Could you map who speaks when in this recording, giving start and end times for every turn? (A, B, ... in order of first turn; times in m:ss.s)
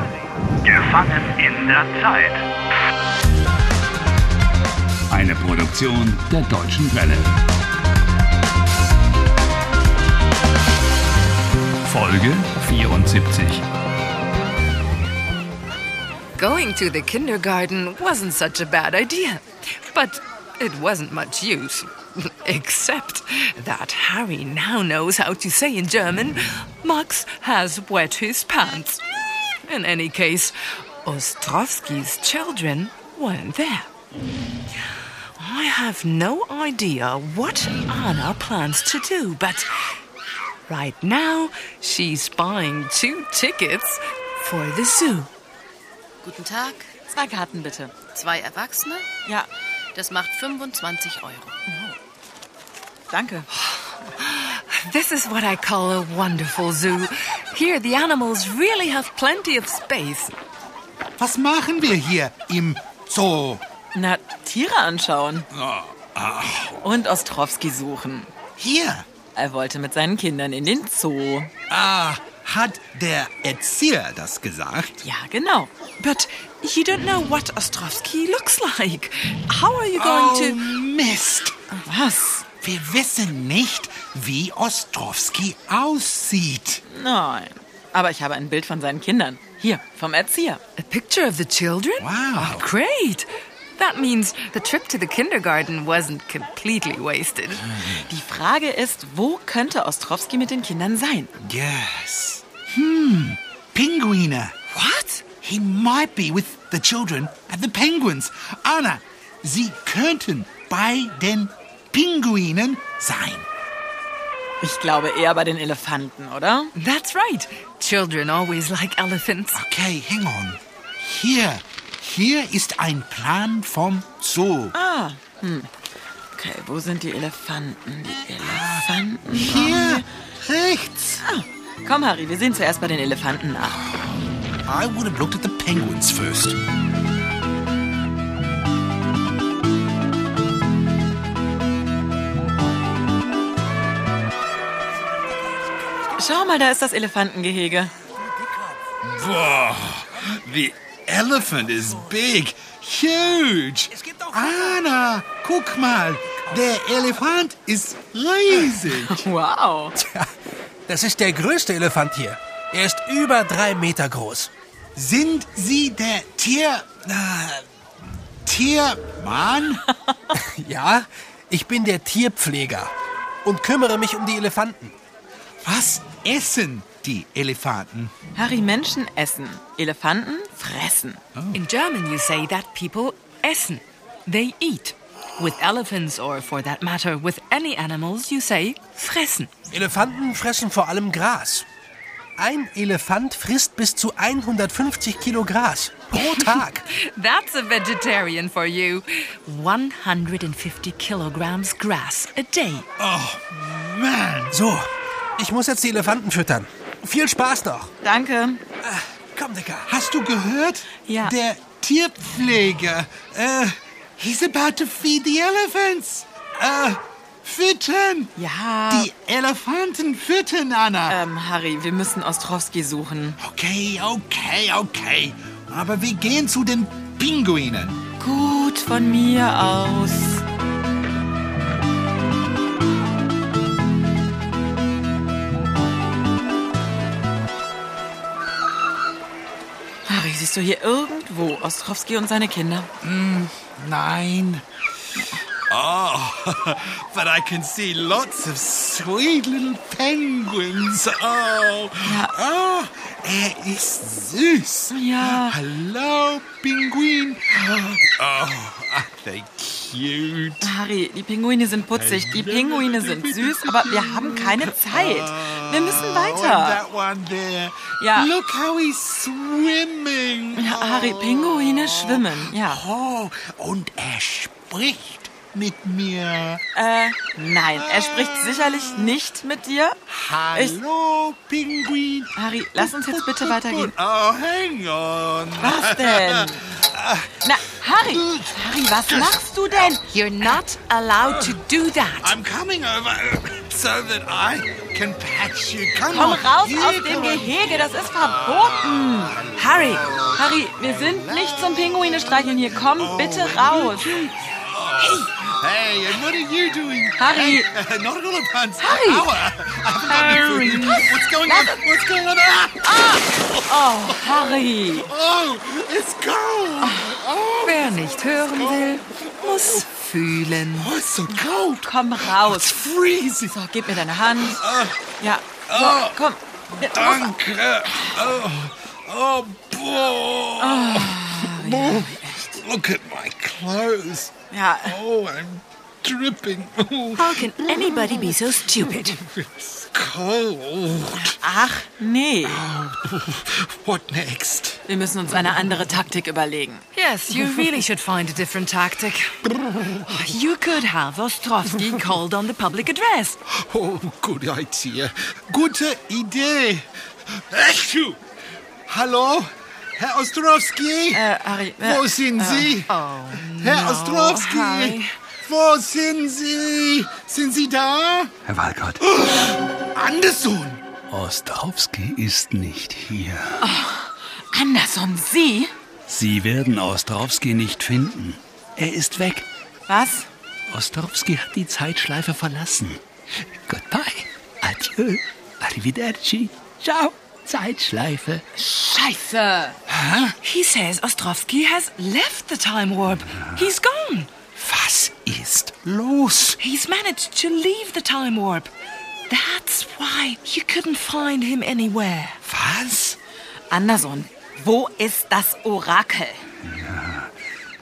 0:00.6-0:02.4 A
0:05.1-0:07.3 A
0:11.8-0:13.6 A
0:16.4-0:29.0 B
0:29.6-0:30.5 B
0:31.0-0:33.9 B
0:35.4-0:39.7 B
0:40.7-0:45.3 B
0:46.2-0:46.9 C
0:47.1-0:48.1 D
0:48.1-0:49.1 C
0:49.2-0:49.5 D
0:49.9-0:51.5 C
0:51.7-0:52.0 D
0:53.1-0:53.5 D
0:53.6-1:00.3 B
1:01.2-1:03.6 E
1:03.9-1:05.5 D
1:05.5-1:06.8 E
1:06.8-1:08.3 D
1:08.6-1:09.1 E
1:09.3-1:11.5 D
1:11.7-1:15.0 E
1:15.0-1:15.7 D
1:16.0-1:20.8 B
1:20.0-1:21.6 E
1:21.9-1:22.5 D
1:22.6-1:26.8 E
1:26.9-1:30.6 D
1:30.8-1:37.7 B
1:32.0-1:32.6 E
1:37.9-1:41.3 D
1:41.4-1:44.5 E
1:44.7-1:45.2 B
1:45.4-1:53.5 E
1:54.6-1:56.7 D
1:56.8-1:59.6 B
1:59.5-2:04.7 E
2:04.7-2:05.7 D
2:06.4-2:10.1 D
2:08.4-2:11.2 E
2:11.2-2:13.8 D
2:14.6-2:16.6 E
2:26.2-2:27.9 D
2:28.2-2:28.8 F
2:29.0-2:39.2 E
2:33.9-2:34.8 F
2:38.5-2:40.0 D
2:40.0-2:40.3 F
2:40.9-2:44.5 F
2:44.9-2:47.6 E
2:48.4-2:49.8 E
2:50.3-2:52.9 F
2:53.4-2:54.9 F
2:55.6-2:58.1 E
2:58.3-3:01.2 D
3:01.3-3:01.6 E
3:01.5-3:09.5 B
3:09.7-3:11.7 F
3:12.4-3:16.8 F
3:16.9-3:22.9 B
3:23.0-3:24.5 E
3:24.5-3:24.8 F
3:25.4-3:27.9 F
3:28.0-3:28.6 D
3:28.8-3:29.9 F
3:29.9-3:38.3 E
3:31.1-3:31.3 D
3:38.4-3:39.1 D
3:38.9-3:41.2 E
3:41.1-3:43.4 D
3:43.4-3:48.0 E
3:48.2-3:50.4 D
4:00.0-4:02.9 D
4:03.0-4:04.6 E
4:05.2-4:05.4 D
4:05.7-4:20.7 E
4:12.0-4:12.3 D
4:14.9-4:15.6 D
4:20.6-4:26.8 D
4:21.9-4:36.6 E
4:28.0-4:28.3 D
4:30.6-4:32.8 D
4:36.7-4:40.0 D
4:37.8-4:39.2 E
4:40.1-4:47.4 E
4:40.5-4:40.8 D
4:42.4-4:44.0 D
4:45.6-4:46.8 D
4:47.4-4:50.0 D
4:48.0-4:49.4 E
4:50.1-4:52.4 B
4:51.2-4:51.6 E
4:52.2-5:01.9 E
4:56.1-5:04.2 D
5:03.0-5:19.8 E
5:05.0-5:05.2 D
5:07.2-5:07.7 D
5:08.8-5:09.4 D
5:10.1-5:11.9 D
5:12.8-5:15.1 D
5:16.8-5:17.2 D
5:17.6-5:20.9 B
5:20.7-5:23.6 E
5:21.3-5:22.8 D
5:23.4-5:24.6 D
5:24.2-5:25.1 E
5:25.2-5:27.4 D
5:25.7-5:26.2 E
5:26.9-5:38.2 E
5:30.6-5:32.6 D
5:34.5-5:35.0 D
5:37.2-5:39.2 B
5:38.8-5:41.4 E
5:41.1-5:42.6 D
5:42.4-5:44.8 E
5:44.9-5:46.8 D
5:46.9-5:49.4 B
5:49.9-5:53.4 B
5:53.5-5:58.2 E
5:58.9-6:01.2 E
6:01.1-6:02.8 D
6:01.8-6:08.3 E
6:02.9-6:05.1 B
6:08.4-6:09.0 A
6:09.1-6:10.8 E
6:11.1-6:13.6 A
6:13.6-6:15.7 D
6:16.1-6:19.4 A
6:19.9-6:20.3 D
6:20.7-6:23.0 A
6:23.7-6:28.4 A
6:28.5-6:29.8 D
6:30.0-6:30.3 E
6:30.4-6:34.3 B
6:34.6-6:36.6 E
6:36.6-6:38.7 B
6:39.3-6:42.4 B
6:42.4-6:43.2 E
6:43.7-6:46.4 D
6:46.6-6:47.3 A